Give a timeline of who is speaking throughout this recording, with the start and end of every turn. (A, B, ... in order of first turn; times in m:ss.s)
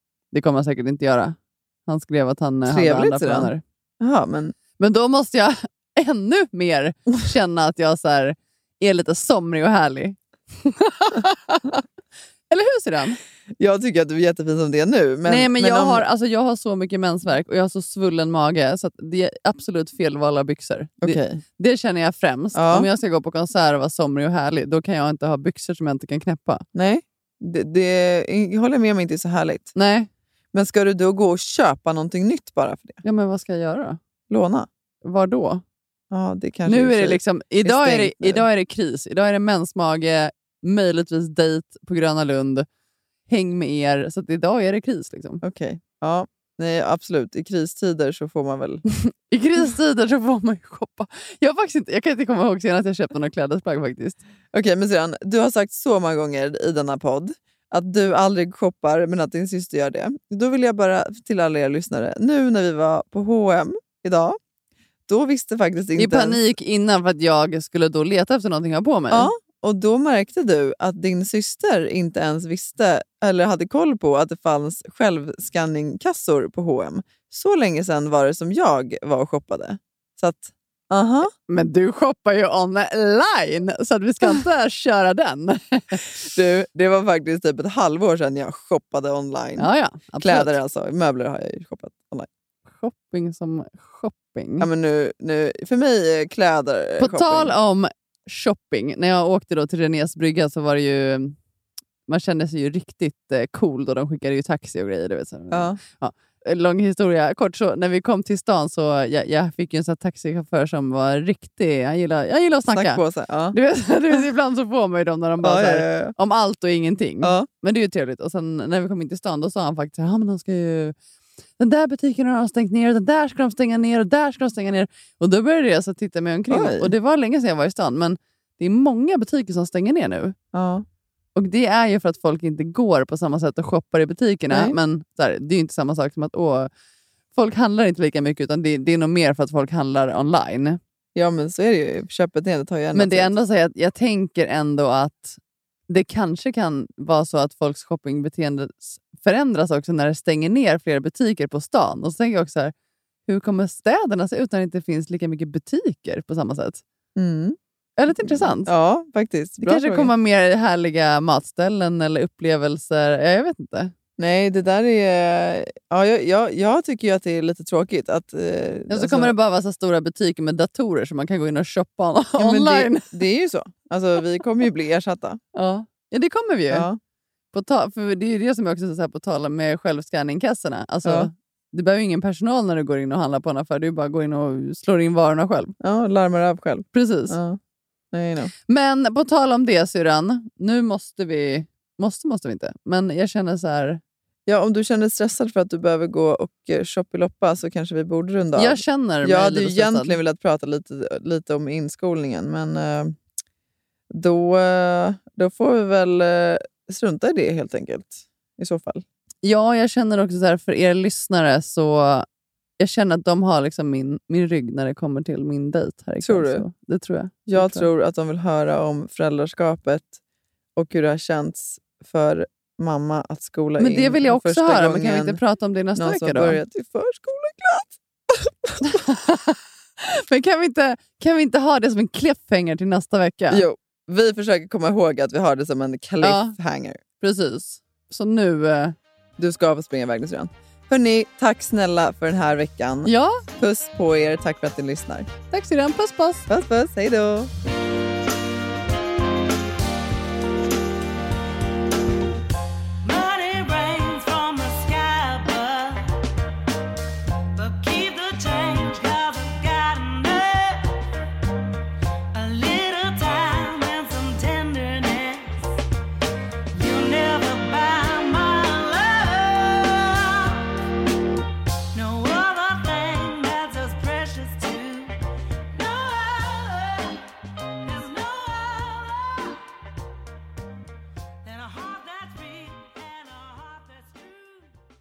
0:00.3-0:03.6 A
0:02.7-0:04.6 B
0:04.8-0:11.8 A
0:12.5-0:13.2 A
0:13.6-0:16.1 B
0:15.3-0:26.6 A
0:21.0-0:21.4 B
0:22.5-0:22.9 B
0:26.7-0:29.7 B
0:29.8-0:30.1 A
0:30.5-0:33.0 B
0:33.0-0:34.0 A
0:34.3-0:34.7 B
0:35.0-0:35.6 A
0:36.1-0:38.4 B
0:36.7-0:42.7 A
0:43.3-0:45.4 A
0:45.4-0:48.8 B
0:49.0-0:54.2 A
0:54.5-1:04.4 B
1:05.1-1:06.4 B
1:06.0-1:09.3 A
1:09.1-1:21.3 B
1:21.5-1:26.2 A
1:26.0-1:32.3 B
1:29.6-1:30.6 A
1:32.7-1:34.7 A
1:34.6-1:37.5 B
1:37.0-1:41.3 A
1:42.1-1:53.0 A
1:45.5-1:45.8 B
1:52.7-1:53.6 B
1:53.5-2:01.0 A
1:55.4-1:56.2 B
1:57.2-1:57.5 B
2:01.6-2:10.4 A
2:06.5-2:06.9 B
2:10.5-2:10.8 B
2:11.4-2:16.7 A
2:17.3-2:20.8 A
2:21.2-2:23.3 B
2:22.9-2:25.4 A
2:25.9-2:32.7 A
2:33.3-2:36.8 A
2:37.2-2:37.6 B
2:38.0-2:38.7 A
2:38.1-2:40.1 B
2:39.6-2:43.9 A
2:44.2-2:49.4 B
2:48.9-2:53.1 A
2:52.4-2:55.4 B
2:55.5-2:56.9 A
2:56.7-2:57.0 B
2:57.5-3:05.8 A
3:01.0-3:01.3 B
3:05.8-3:07.6 B
3:06.9-3:07.4 A
3:08.1-3:08.5 B
3:08.7-3:14.0 A
3:14.5-3:23.2 B
3:18.6-3:20.2 A
3:24.1-3:29.0 B
3:29.4-3:32.3 A
3:32.8-3:37.9 A
3:36.2-3:36.7 B
3:37.5-3:40.2 B
3:40.8-3:45.4 B
3:43.8-3:46.6 A
3:46.0-3:48.8 B
3:48.8-3:53.6 A
3:53.5-3:57.0 B
3:56.2-3:56.6 A
3:57.2-3:59.0 A
3:59.4-4:05.3 B
4:03.1-4:03.4 A
4:05.5-4:06.5 A
4:06.5-4:07.5 B
4:13.0-4:16.3 C
4:17.6-4:21.0 C
4:22.3-4:25.8 C
4:26.7-4:30.9 C
4:31.9-4:35.2 C
4:35.7-4:37.2 C
4:37.8-4:39.6 C
4:41.4-4:44.7 C